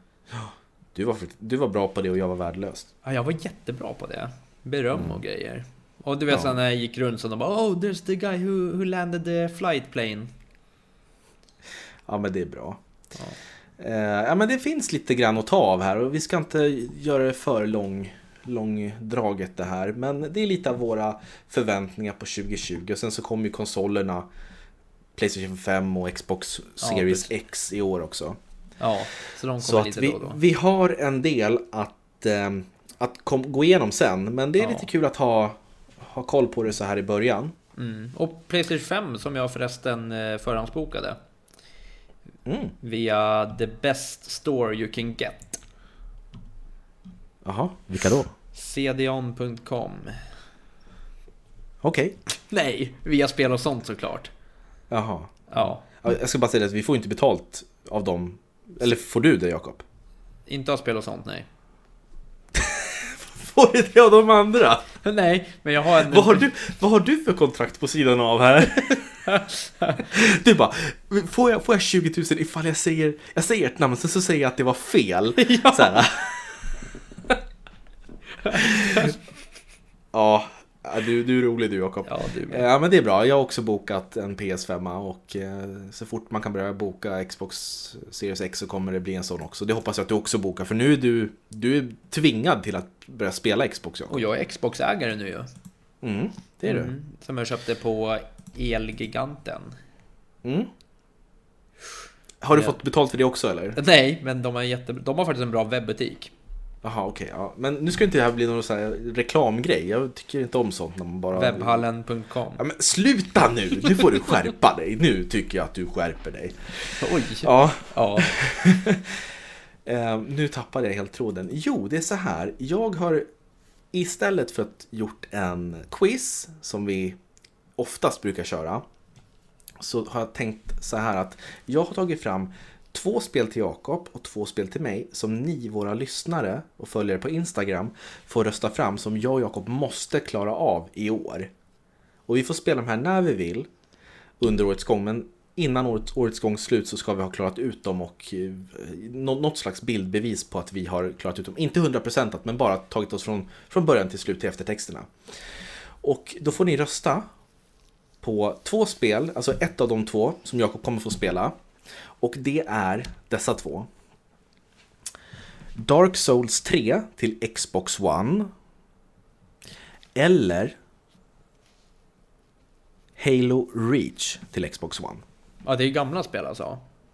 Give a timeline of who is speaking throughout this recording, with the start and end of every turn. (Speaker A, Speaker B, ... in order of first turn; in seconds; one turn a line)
Speaker A: 0.3-2.9
Speaker B: 3.0-10.3
Speaker A: 4.9-5.2
Speaker A: 6.3-6.5
Speaker A: 12.1-12.8
Speaker A: 13.8-24.3
Speaker A: 25.1-28.4
Speaker B: 26.8-27.3
Speaker B: 28.8-30.4
Speaker A: 29.6-37.5
Speaker B: 34.6-34.9
Speaker B: 37.8-41.2
Speaker A: 42.5-42.7
Speaker B: 42.8-45.6
Speaker A: 47.4-48.3
Speaker B: 48.5-50.2
Speaker A: 51.8-52.1
Speaker B: 52.3-54.3
Speaker A: 54.9-55.3
Speaker B: 55.5-55.9
Speaker A: 56.0-59.8
Speaker B: 60.5-61.5
Speaker A: 62.5-64.9
Speaker B: 65.0-66.5
Speaker A: 65.9-69.2
Speaker B: 69.2-70.1
Speaker A: 70.0-76.5
Speaker B: 75.4-76.1
Speaker B: 78.4-79.1
Speaker A: 78.5-79.1
Speaker A: 80.1-94.2
Speaker B: 82.0-82.6
Speaker B: 94.1-95.5
Speaker A: 96.0-96.9
Speaker B: 96.6-99.8
Speaker A: 100.4-100.7
Speaker A: 102.4-103.8
Speaker B: 103.7-106.3
Speaker A: 106.8-111.8
Speaker B: 111.3-112.6
Speaker A: 112.6-119.2
Speaker B: 117.0-118.3
Speaker A: 119.8-123.2
Speaker A: 123.9-127.2
Speaker A: 127.8-128.8
Speaker A: 129.8-141.5
Speaker A: 142.3-143.7
Speaker A: 144.4-155.1
Speaker A: 156.0-157.2
Speaker A: 158.2-161.5
Speaker A: 162.2-163.9
Speaker A: 165.8-168.5
Speaker A: 170.1-170.7
Speaker A: 173.2-175.2
Speaker B: 175.6-176.8